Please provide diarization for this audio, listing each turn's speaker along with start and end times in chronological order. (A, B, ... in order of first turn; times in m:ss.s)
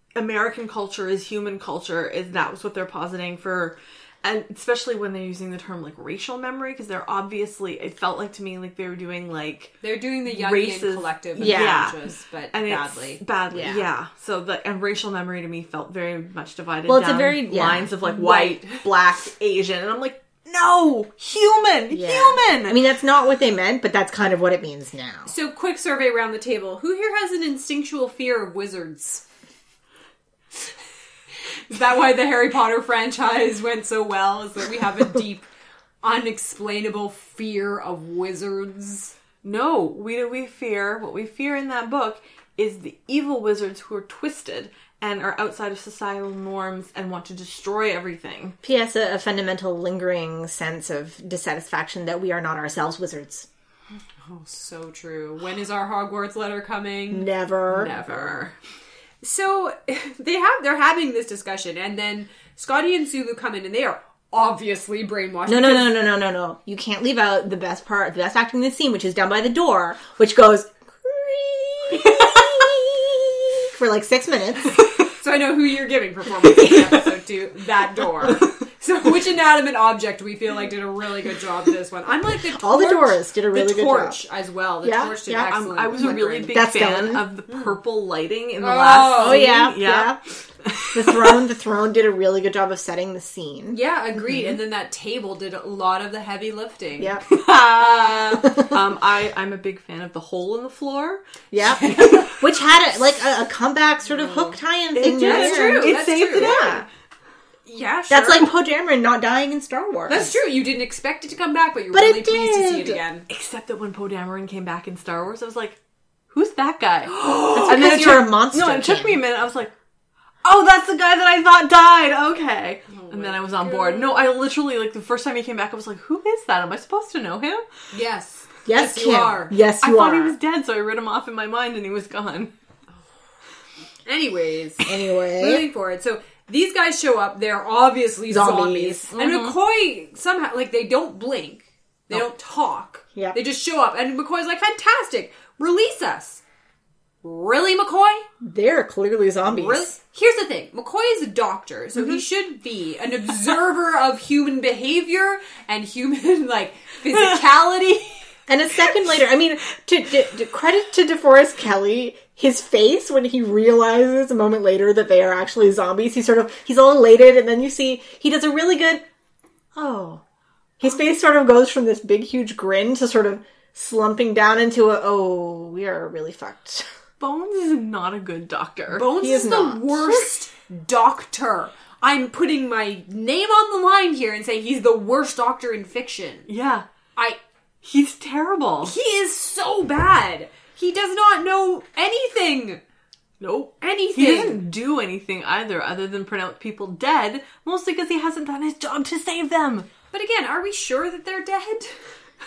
0:00.2-0:22.8 A
0:09.8-0:13.2 B
0:11.4-0:11.9 C
0:13.5-0:13.9 C
0:16.9-0:17.9 C
0:18.0-0:18.8 B
0:21.9-0:25.3 C
0:25.3-0:29.2 B
0:31.7-0:35.5 B
0:36.0-0:39.1 B
0:39.4-0:48.6 A
0:48.6-0:53.5 C
0:54.2-0:58.5 B
0:57.1-0:57.9 C
0:57.7-0:58.5 A
0:59.2-1:05.9 B
1:05.5-1:14.8 C
1:15.2-1:26.6 B
1:22.5-1:24.2 C
1:24.8-1:27.3 C
1:25.4-1:31.4 A
1:27.5-1:27.8 B
1:28.6-1:29.6 B
1:29.2-1:30.2 C
1:30.9-1:34.6 C
1:33.7-1:38.7 B
1:37.0-1:37.2 C
1:38.4-1:41.2 A
1:41.5-1:46.9 C
1:41.6-1:42.3 B
1:41.8-1:42.4 A
1:44.1-1:46.7 B
1:44.9-1:46.9 A
1:47.7-1:48.5 B
1:48.1-1:50.4 C
1:50.1-1:53.3 B
1:51.9-1:53.0 C
1:53.3-1:55.8 A
1:56.3-1:59.7 A
1:57.6-1:59.2 C
2:00.4-2:07.7 A
2:02.9-2:04.3 B
2:07.9-2:09.6 B
2:08.6-2:10.4 C
2:09.8-2:12.5 A
2:14.1-2:26.4 B
2:14.8-2:15.7 C
2:18.3-2:19.1 C
2:19.2-2:19.6 A
2:27.2-2:28.3 B
2:28.4-2:29.9 C
2:29.4-2:38.2 B
2:32.0-2:32.2 C
2:38.5-2:49.0 C
2:49.8-2:50.2 C
2:50.8-2:56.9 C
2:57.2-2:59.1 A
2:58.9-3:06.5 B
2:59.1-3:00.2 C
3:06.5-3:06.9 A
3:07.8-3:09.0 A
3:08.8-3:12.8 B
3:13.4-3:19.9 A
3:13.8-3:14.6 B
3:20.1-3:22.0 B